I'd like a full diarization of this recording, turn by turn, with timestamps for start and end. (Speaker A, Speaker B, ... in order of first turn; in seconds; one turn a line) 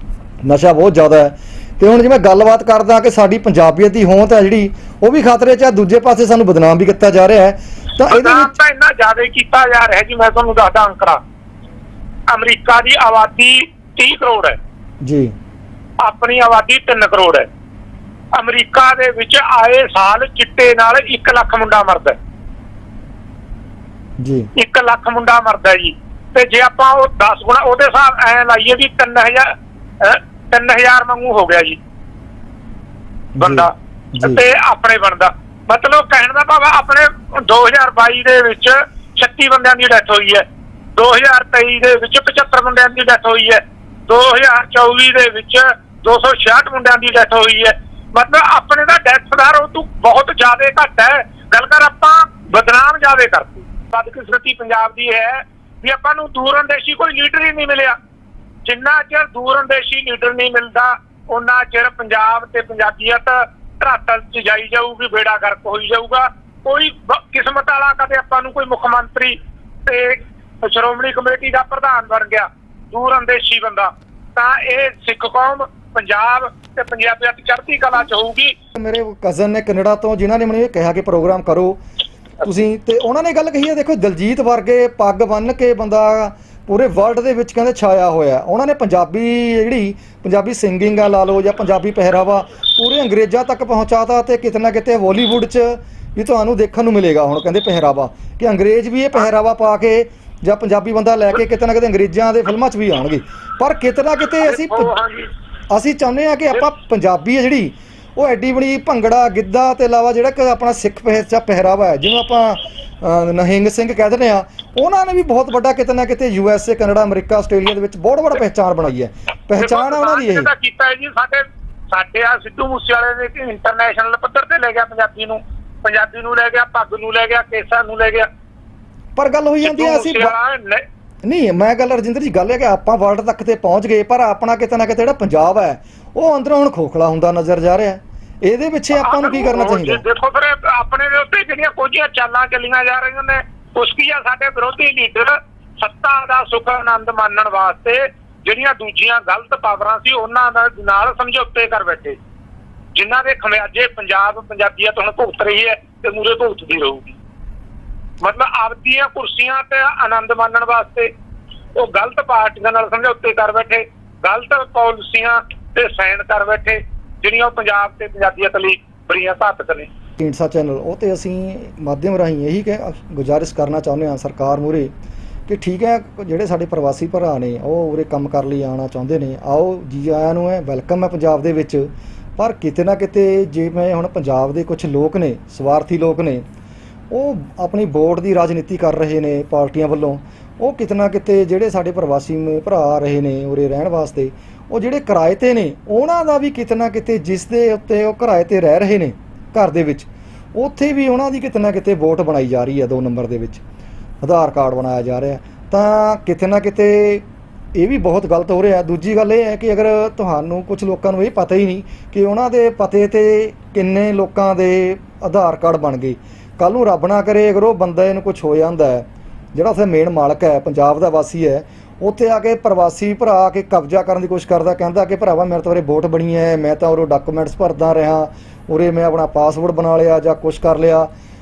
Speaker A: 0.4-8.5
Speaker B: 8.1-11.2
Speaker B: 12.3-14.6
Speaker A: 15.0-15.3
Speaker B: 16.0-17.5
Speaker B: 18.3-22.2
Speaker A: 24.2-24.5
Speaker B: 24.5-31.8
Speaker A: 33.4-34.4
Speaker B: 33.4-40.4
Speaker B: 40.9-58.0
Speaker B: 58.6-78.5
Speaker A: 78.7-81.8
Speaker A: 82.4-104.9
Speaker B: 104.4-105.3
Speaker A: 105.7-120.5
Speaker B: 119.6-128.3
Speaker A: 129.2-130.3
Speaker B: 129.6-130.8
Speaker A: 131.2-140.0
Speaker B: 138.9-152.2
Speaker B: 152.9-157.2
Speaker B: 158.2-161.1
Speaker B: 161.8-169.9
Speaker A: 170.2-174.9
Speaker A: 175.5-186.4
Speaker A: 187.1-203.6
Speaker A: 204.2-231.1